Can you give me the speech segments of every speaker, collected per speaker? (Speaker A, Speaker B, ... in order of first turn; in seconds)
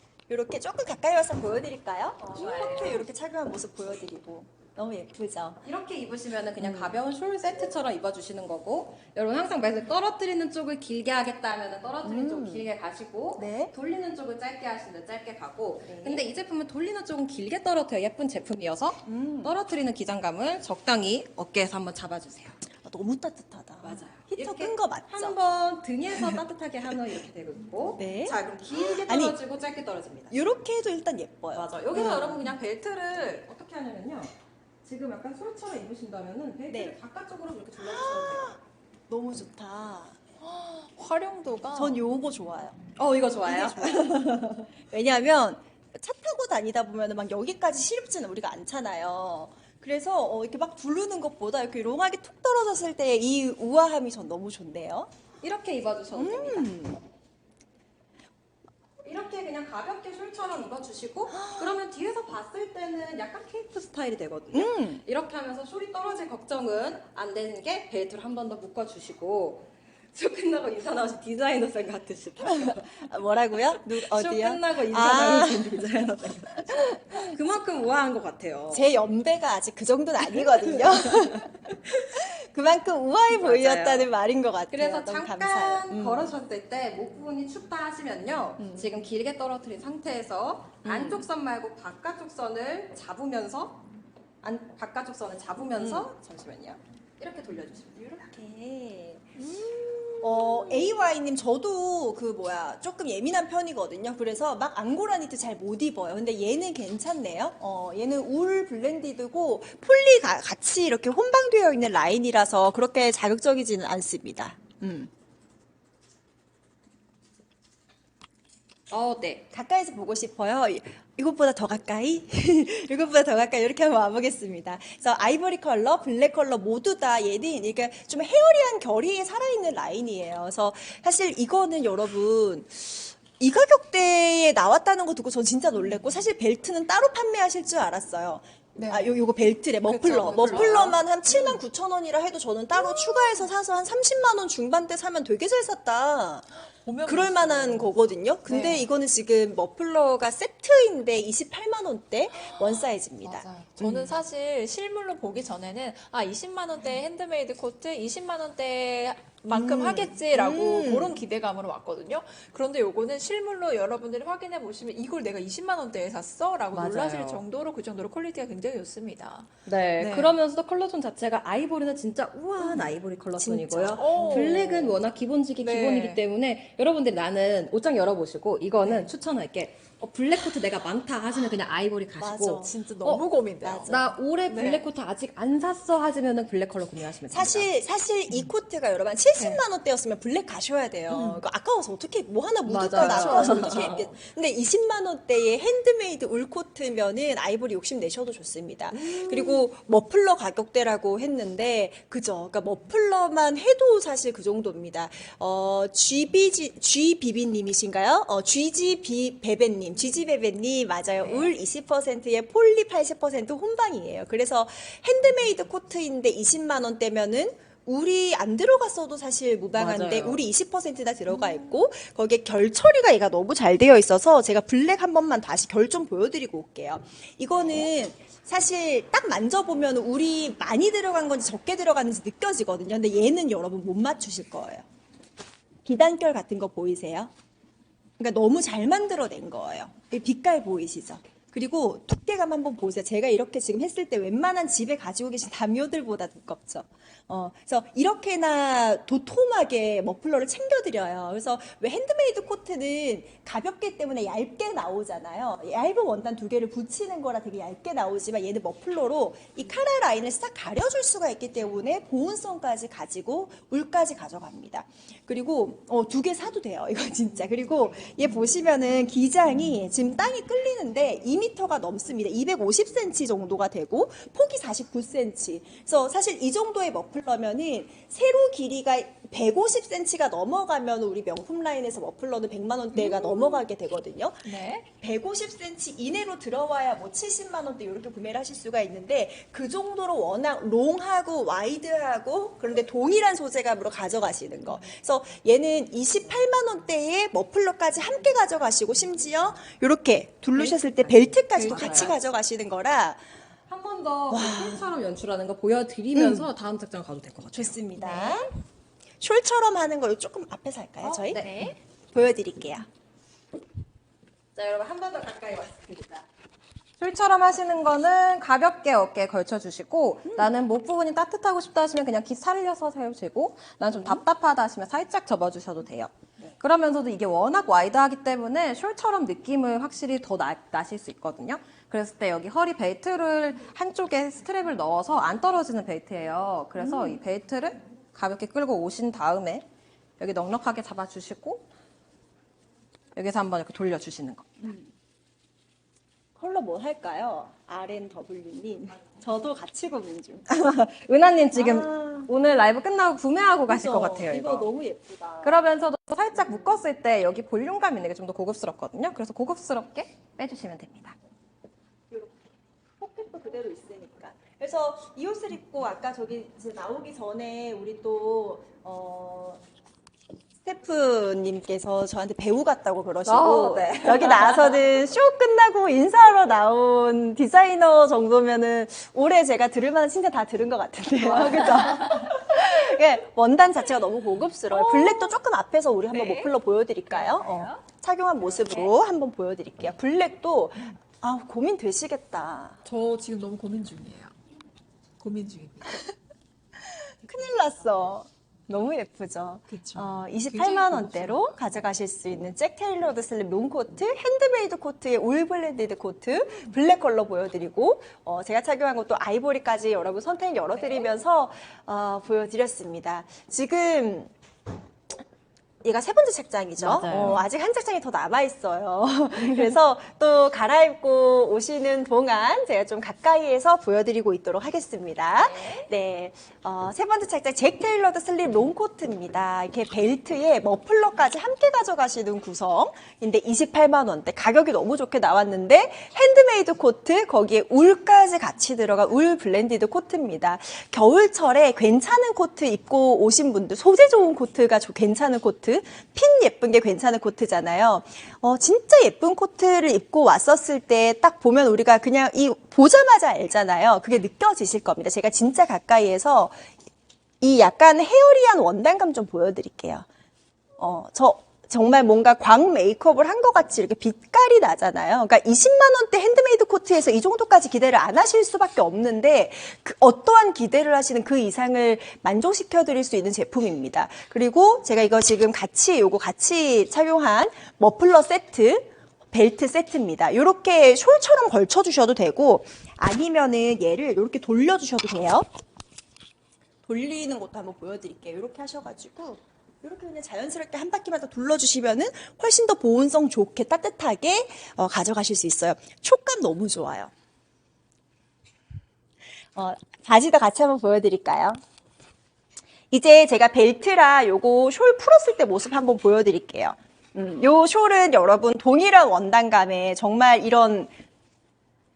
Speaker A: 0.3-5.6, 6.6-7.0, 12.0-12.7, 13.4-13.7, 15.8-16.2, 19.1-19.6, 22.8-25.4, 26.1-26.4, 28.0-29.4, 30.3-32.5, 36.7-37.0, 37.8-40.2, 41.7-42.8, 43.4-55.1, 56.1-57.0, 61.3-61.8, 64.5-65.0, 72.4-75.9, 76.8-77.3, 78.7-86.3, 88.6-88.9, 90.8-91.3, 95.8-96.1, 98.2-99.3, 100.2-115.1, 119.5-146.5, 147.1-154.2, 159.5-161.2, 172.6-174.7, 182.2-182.8, 183.6-184.1, 187.3-234.8, 235.8-237.3, 238.2-303.2, 304.3-304.9, 306.1-306.5, 307.5-308.5, 309.2-311.5, 312.1-312.9, 320.2-320.5, 336.8-337.2, 344.6-344.9, 346.4-350.5, 351.5-352.3, 353.7-355.6, 362.1-362.4, 363.0-369.6, 370.6-392.8, 397.2-414.3, 415.8-456.6, 457.4-460.1, 460.8-485.5, 486.8-497.1, 499.6-501.6, 502.9-510.9
Speaker B: 2.2-3.0, 5.6-22.6, 23.8-30.3, 31.5-38.6, 43.0-44.7, 55.4-56.7, 59.0-73.1, 73.9-78.9, 80.2-81.5, 83.3-84.1, 84.7-93.8, 94.4-98.2, 118.9-119.5, 166.7-167.4, 169.7-183.2, 183.8-187.7, 192.7-194.1, 219.8-220.4, 300.6-302.2, 303.7-307.8, 314.6-316.3, 317.0-339.7, 340.2-341.7, 343.1-344.6, 350.5-354.7, 355.4-361.2, 373.2-374.9, 416.8-417.4
Speaker C: 40.4-42.0, 99.4-101.0, 138.8-139.1, 139.8-141.6, 142.7-143.5, 146.8-148.0, 148.5-148.9, 152.3-170.4, 173.9-175.0, 175.6-176.2, 182.6-184.9, 189.4-189.6, 191.1-191.4, 192.9-193.9, 198.9-199.7, 211.2-211.5, 282.9-283.6, 284.4-284.9, 301.7-302.1, 308.0-308.5, 311.0-311.8, 381.3-382.3, 384.7-385.4, 386.1-386.5, 387.1-387.8, 388.5-388.9, 392.8-394.3, 395.2-396.1, 399.7-401.6, 417.1-417.4, 425.4-425.9